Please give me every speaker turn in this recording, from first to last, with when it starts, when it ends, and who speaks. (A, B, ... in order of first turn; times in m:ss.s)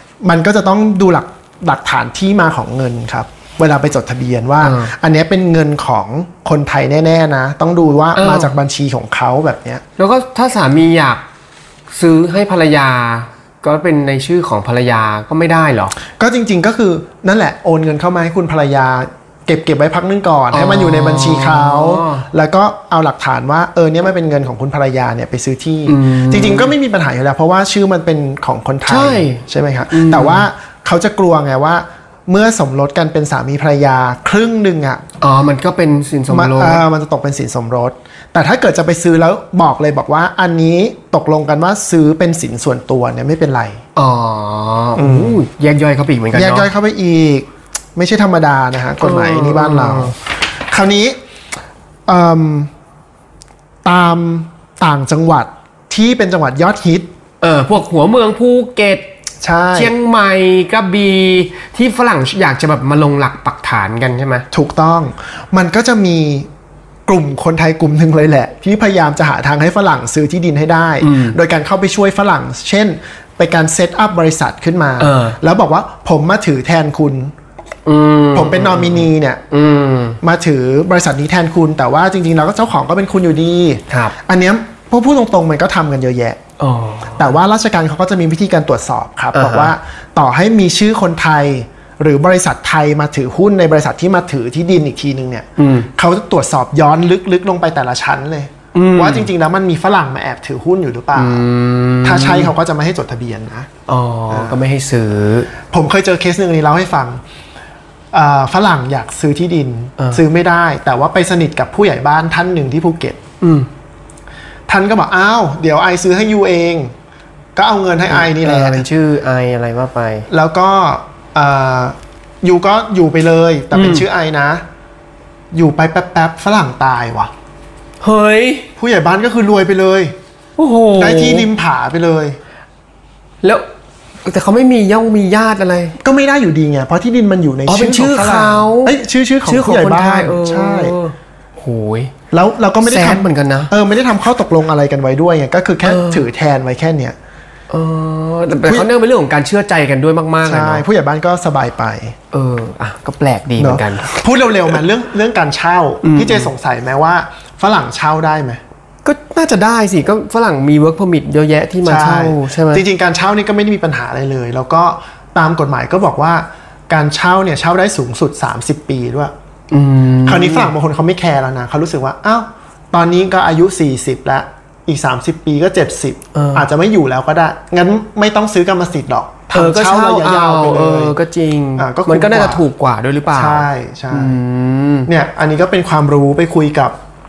0:00.2-0:09.8 A
0:04.6-0:04.9 B
0:08.2-0:08.5 B
0:10.0-0:11.2 B
0:11.9-0:15.9 B
0:16.2-0:35.0 A
0:20.5-0:22.2 B
0:25.8-0:26.7 B
0:28.8-0:30.5 B
0:35.2-0:36.8 B
0:36.3-0:43.8 A
0:43.9-0:46.7 B
0:45.0-0:45.4 A
0:46.3-0:51.2 A
0:49.0-0:50.1 B
0:52.0-0:52.7 A
0:53.8-0:57.1 A
0:57.4-0:59.1 B
0:59.4-1:00.0 A
0:59.7-1:04.4 B
1:04.5-1:06.5 A
1:07.1-1:17.3 A
1:11.0-1:11.4 B
1:15.0-1:15.4 B
1:17.8-1:20.2 B
1:18.3-1:19.4 A
1:20.2-1:26.4 A
1:23.9-1:24.1 B
1:26.6-1:27.3 B
1:27.2-1:41.4 A
1:29.3-1:29.7 B
1:35.6-1:35.9 B
1:38.7-1:39.3 B
1:41.1-1:42.5 B
1:42.0-1:43.7 A
1:43.9-1:45.5 B
1:44.3-1:44.6 A
1:45.7-1:47.2 A
1:48.1-1:53.2 A
1:53.4-1:53.7 B
1:54.7-1:56.9 A
1:57.6-1:58.8 A
1:58.1-2:00.3 B
2:00.3-2:04.6 A
2:03.7-2:04.0 B
2:05.5-2:07.3 A
2:08.0-2:08.7 B
2:08.8-2:10.1 A
2:10.6-2:11.5 B
2:10.9-2:12.4 A
2:14.2-2:16.0 B
2:16.0-2:21.0 A
2:17.6-2:22.1 B
2:22.3-2:27.2 A
2:22.8-2:23.7 B
2:25.8-2:26.2 B
2:27.7-2:30.8 B
2:30.4-2:32.2 A
2:32.3-2:34.8 B
2:33.6-2:38.6 A
2:36.0-2:36.5 B
2:39.0-2:42.8 B
2:41.8-2:49.3 A
2:49.7-2:50.7 B
2:50.2-3:01.2 A
2:56.3-2:56.7 B
2:59.5-3:05.1 B
3:01.8-3:02.6 A
3:03.3-3:04.4 A
3:05.1-3:07.0 A